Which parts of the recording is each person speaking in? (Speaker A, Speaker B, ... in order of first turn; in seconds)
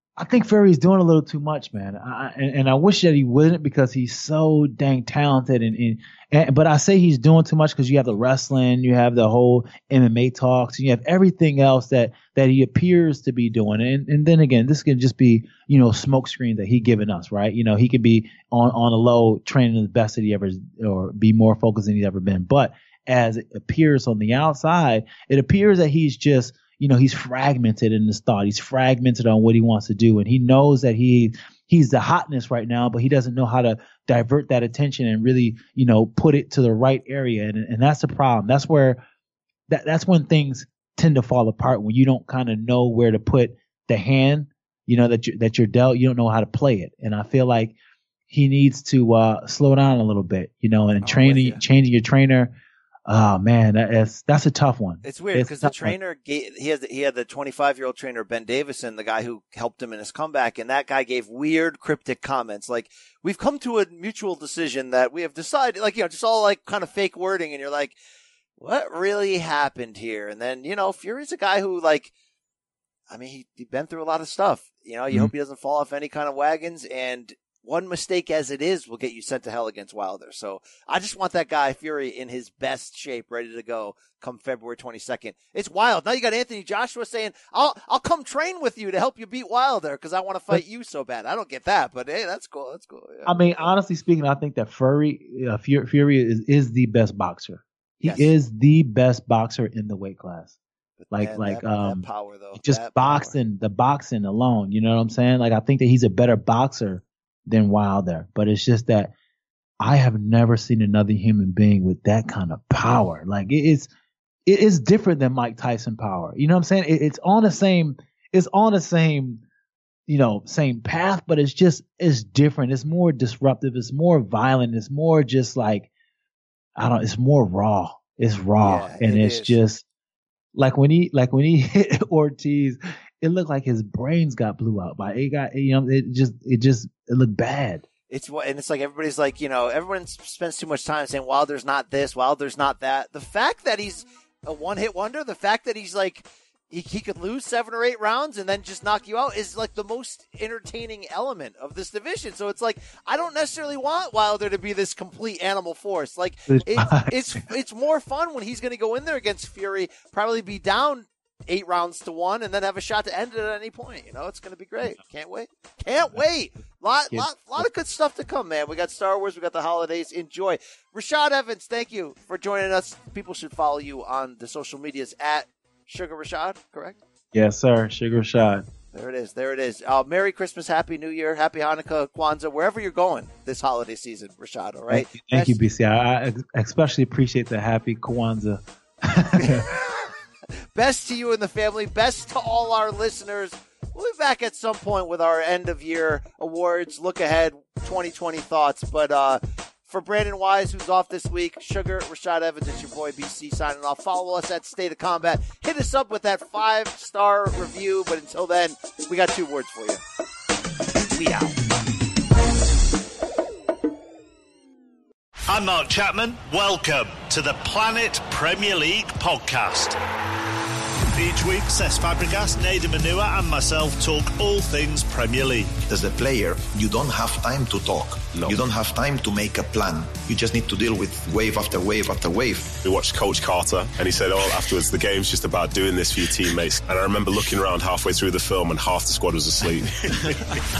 Speaker A: 0.2-39.0, 39.7-47.7, 48.3-52.5, 53.0-56.0, 93.2-100.6, 101.1-109.1, 109.8-113.9, 114.5-119.4, 120.1-125.9, 126.8-129.8, 130.5-137.8, 156.5-157.1, 167.1-167.7, 177.3-178.7, 184.9-189.7
Speaker B: 51.0-51.6, 55.0-67.9, 68.6-72.1, 73.1-93.7, 98.0-98.3, 101.0-103.4, 128.6-129.6, 138.1-177.0, 178.9-185.6, 189.3-190.1, 190.7-210.0, 211.1-211.7
Speaker C: 215.5-220.0, 221.1-225.8
Speaker D: 225.9-232.8
Speaker E: 232.8-240.4